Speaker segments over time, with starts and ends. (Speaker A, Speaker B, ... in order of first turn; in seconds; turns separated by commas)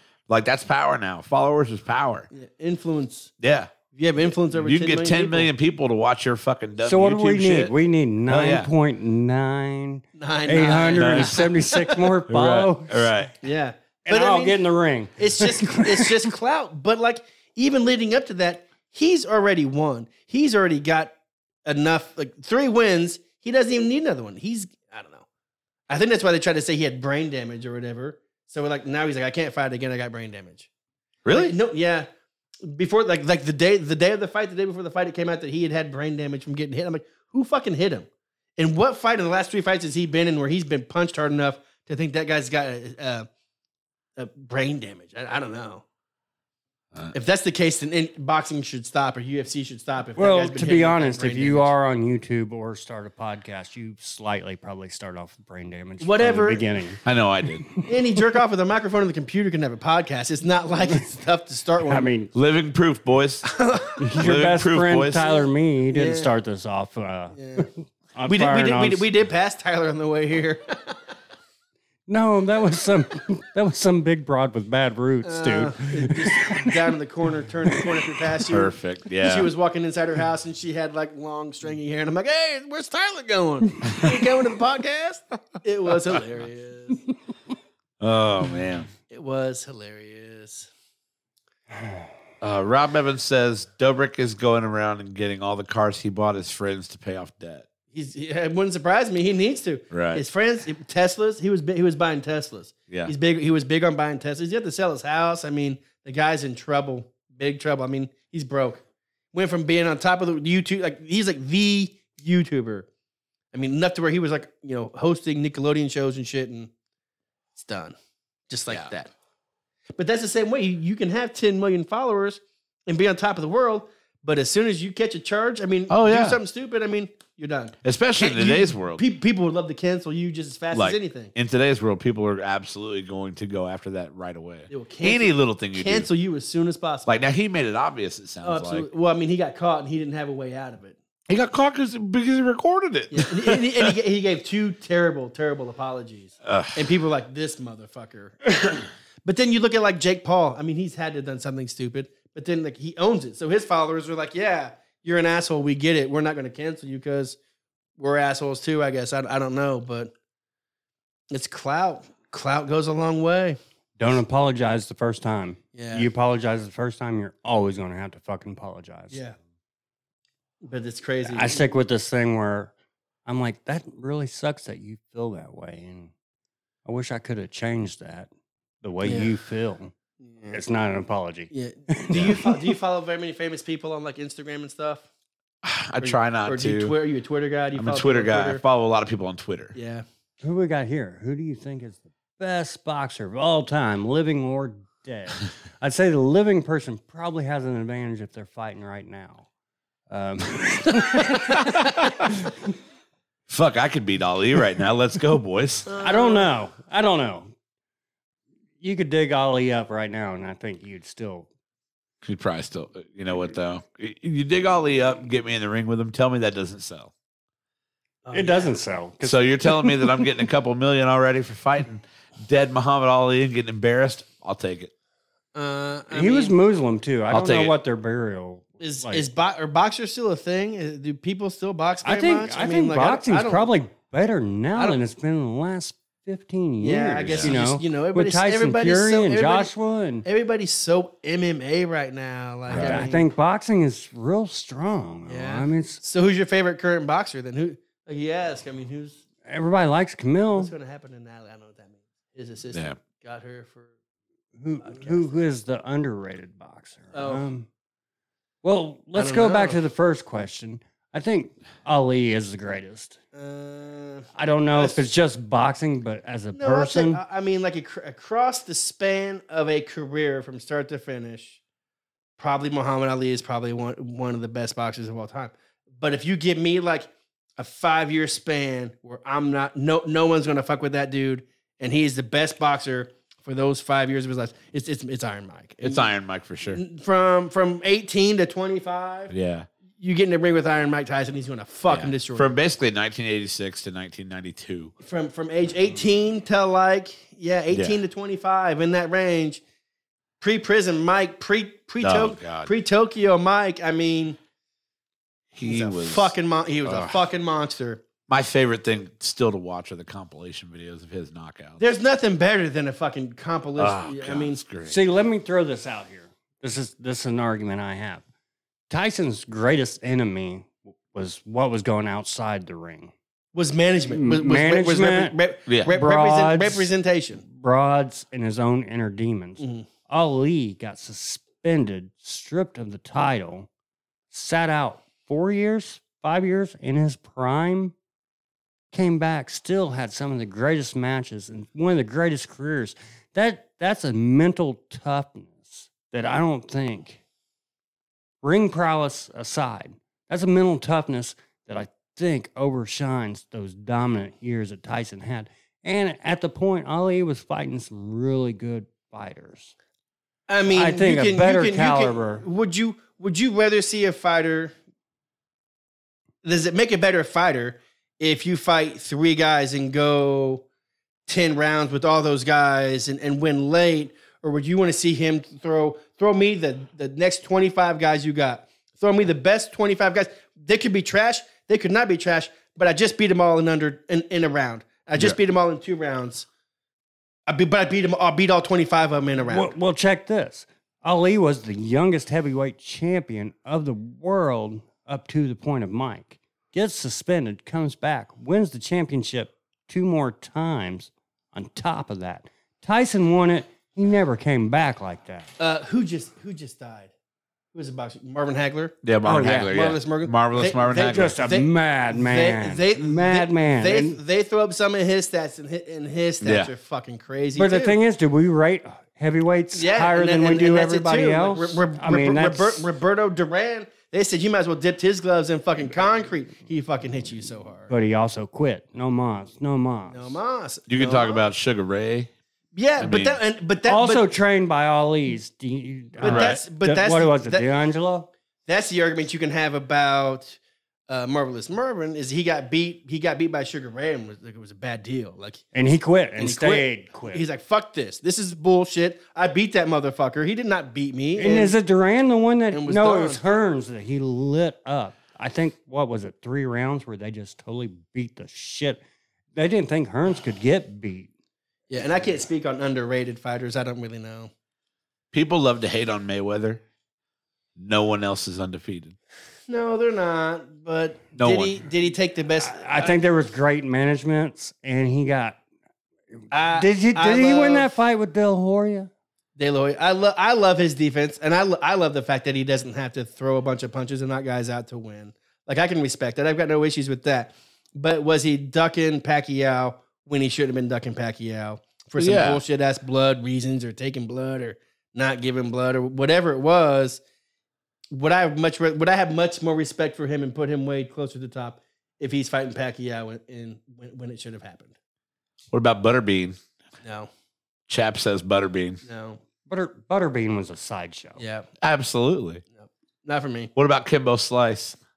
Speaker A: 0.3-2.3, Speaker B: 2.3-3.3, Speaker A: 3.4-3.7, Speaker B: 3.9-5.5, Speaker A: 4.5-7.7, Speaker C: 6.8-13.1, Speaker A: 8.3-8.7, Speaker B: 10.2-12.1, Speaker A: 10.9-11.5, Speaker A: 12.3-13.3, Speaker B: 13.4-14.6, Speaker C: 14.0-16.3, Speaker B: 15.2-21.1, Speaker B: 21.6-25.2, Speaker B: 25.9-30.7, Speaker A: 31.2-31.5, Speaker B: 31.3-32.1, Speaker B: 32.6-43.3, Speaker B: 44.2-45.8, Speaker B: 47.1-51.7, Speaker C: 50.2-57.9, Speaker B: 56.0-56.7, Speaker A: 57.0-57.7, Speaker B: 57.8-62.1, Speaker C: 61.8-62.3, Speaker A: 62.3-63.5, Speaker B: 63.4-64.1, Speaker C: 64.0-69.0, Speaker A: 64.2-65.3, Speaker B: 65.9-66.3, Speaker B: 67.3-67.7, Speaker B: 68.3-71.0, Speaker C: 72.1-76.8, Speaker B: 75.2-87.0, Speaker C: 77.7-78.2, Speaker A: 78.5-79.5, Speaker A: 88.0-88.9, Speaker B: 89.1-90.7, Speaker A: 92.4-97.7, Speaker B: 97.9-108.8, Speaker A: 99.9-100.2, Speaker B: 109.3-112.9, Speaker B: 113.5-116.7, Speaker B: 117.5-117.9, Speaker B: 118.5-119.1, Speaker B: 120.0-131.3, Speaker A: 125.9-126.4, Speaker A: 127.8-129.0, Speaker A: 130.7-136.1, Speaker B: 134.7-137.2, Speaker A: 137.1-138.9, Speaker B: 138.4-140.9, Speaker A: 141.3-143.9, Speaker B: 143.1-157.4, Speaker A: 146.4-147.0, Speaker B: 158.0-160.1, Speaker B: 161.3-163.6, Speaker C: 164.0-169.2, Speaker B: 165.7-166.1, Speaker B: 169.1-169.3, Speaker B: 170.6-171.6, Speaker C: 171.2-172.7, Speaker C: 173.2-176.1, Speaker C: 176.8-178.3, Speaker C: 178.8-179.9, Speaker B: 179.0-179.3, Speaker B: 180.2-180.6, Speaker C: 180.5-182.7, Speaker B: 181.5-185.1, Speaker A: 185.6-186.9, Speaker B: 186.0-188.6, Speaker A: 187.7-189.8, Speaker B: 189.7-190.0, Speaker C: 190.4-199.5, Speaker C: 200.1-202.7, Speaker A: 203.5-205.8, Speaker B: 205.9-206.5, Speaker C: 205.9-207.5, Speaker C: 208.8-211.5, Speaker A: 212.2-217.1, Speaker B: 218.2-218.7, Speaker C: 218.3-220.1, Speaker A: 219.2-224.9, Speaker B: 225.5-226.5, Speaker C: 226.1-229.2, Speaker A: 227.3-227.7, Speaker B: 228.8-233.7, Speaker C: 232.0-240.2, Speaker B: 236.8-239.7, Speaker A: 237.2-237.6, Speaker B: 240.2-243.3, Speaker A: 242.7-243.0, Speaker C: 242.7-246.0, Speaker B: 245.3-249.2, Speaker C: 249.4-250.7, Speaker B: 250.6-253.9, Speaker C: 254.6-257.7, Speaker B: 254.8-255.3, Speaker B: 257.1-257.4, Speaker C: 258.6-263.2, Speaker B: 259.1-259.8, Speaker B: 263.3-265.0, Speaker C: 264.3-267.2, Speaker B: 266.5-271.6, Speaker B: 272.4-286.1, Speaker A: 285.8-286.8, Speaker B: 286.7-289.3, Speaker A: 289.3-289.7, Speaker B: 290.0-292.5, Speaker A: 291.9-294.9, Speaker B: 295.0-299.6, Speaker A: 297.7-298.0, Speaker B: 300.4-304.4, Speaker A: 302.0-302.7, Speaker A: 305.5-306.3, Speaker B: 305.6-308.0, Speaker A: 306.8-307.2, Speaker A: 308.3-311.8, Speaker B: 311.8-314.6, Speaker A: 313.8-315.0, Speaker C: 314.9-318.2, Speaker C: 318.9-323.1, Speaker B: 323.5-327.4, Speaker C: 324.1-326.9, Speaker A: 325.7-325.9, Speaker C: 327.4-333.7, Speaker B: 329.6-329.9, Speaker C: 334.3-337.9, Speaker C: 338.9-347.2, Speaker C: 348.4-359.7, Speaker B: 360.5-364.7, Speaker C: 360.7-362.4, Speaker B: 366.4-370.6, Speaker B: 371.3-386.5, Speaker B: 387.5-389.7, Speaker C: 389.5-405.5, Speaker B: 405.6-407.1, Speaker B: 407.7-417.9, Speaker A: 409.0-411.3, Speaker C: 409.2-409.7, Speaker C: 411.1-414.2, Speaker A: 416.4-416.7, Speaker C: 417.5-422.9, Speaker B: 419.7-427.9, Speaker C: 427.9-430.4, Speaker B: 430.1-431.4, Speaker A: 430.9-432.3, Speaker B: 432.7-434.2, Speaker A: 433.0-433.4, Speaker C: 433.9-438.3, Speaker B: 436.2-437.7, Speaker A: 436.2-436.6, Speaker B: 438.7-445.6, Speaker C: 445.7-447.4, Speaker B: 446.4-451.8, Speaker C: 451.4-459.0, Speaker B: 452.7-453.4, Speaker C: 459.5-461.3, Speaker B: 461.9-464.5, Speaker A: 465.3-466.8, Speaker A: 467.8-469.1, Speaker B: 469.7-473.1, Speaker A: 471.4-471.8, Speaker C: 472.6-475.6, Speaker B: 476.5-477.9, Speaker C: 476.7-479.1, Speaker B: 479.6-497.2, Speaker A: 492.2-492.6, Speaker B: 498.1-504.9, Speaker A: 505.7-506.6, Speaker B: 507.0-507.3, Speaker A: 507.9-509.0, Speaker B: 509.1-509.4, Speaker C: 509.7-511.4, Speaker B: 511.4-511.7, Speaker A: 511.8-512.6, Speaker B: 512.8-513.7, Speaker A: 513.8-515.0